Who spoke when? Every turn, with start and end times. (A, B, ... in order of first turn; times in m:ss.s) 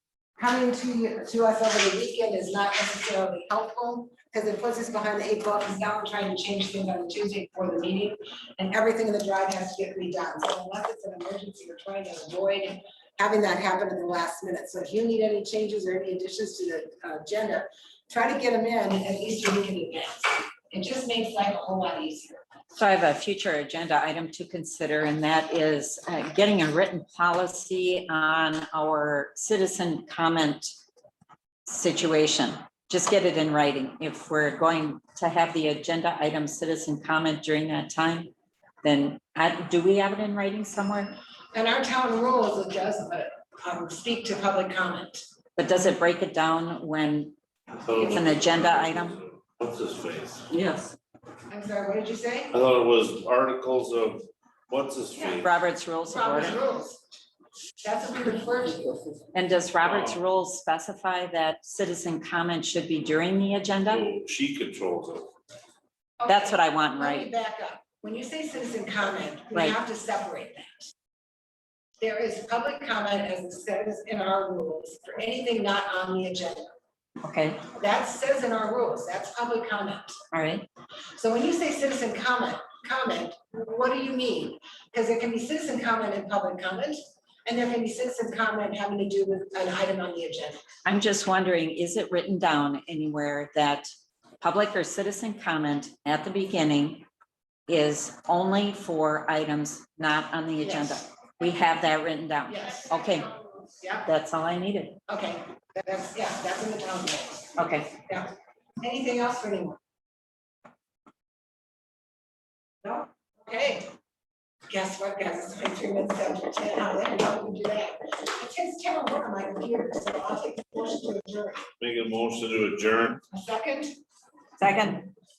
0:00.4-0:22.4 A
0:22.7-0:30.7 B
0:31.7-0:38.3 B
0:38.8-0:41.1 B
0:41.5-0:45.2 A
0:45.6-0:47.3 B
0:47.8-0:50.5 C
0:48.0-0:49.2 B
0:50.5-0:51.0 B
0:51.5-0:52.5 A
0:52.5-0:55.5 C
0:55.1-0:55.4 A
0:55.4-0:56.6 B
0:56.1-0:57.0 A
0:57.8-0:59.2 A
0:59.3-1:04.0 B
0:59.8-1:00.2 C
1:03.9-1:05.3 C
1:06.2-1:10.9 A
1:06.2-1:07.3 B
1:12.0-1:16.7 A
1:17.2-1:17.6 B
1:17.7-1:20.2 A
1:20.3-1:20.6 B
1:21.2-1:30.6 A
1:30.8-1:33.9 B
1:34.4-1:37.0 B
1:37.7-1:43.3 B
1:40.6-1:41.0 A
1:42.5-1:44.1 A
1:44.0-1:45.0 B
1:45.1-1:49.8 A
1:47.6-1:47.9 B
1:52.8-1:53.9 A
1:54.7-2:01.6 A
2:01.8-2:03.2 C
2:03.3-2:04.0 A
2:04.6-2:05.1 B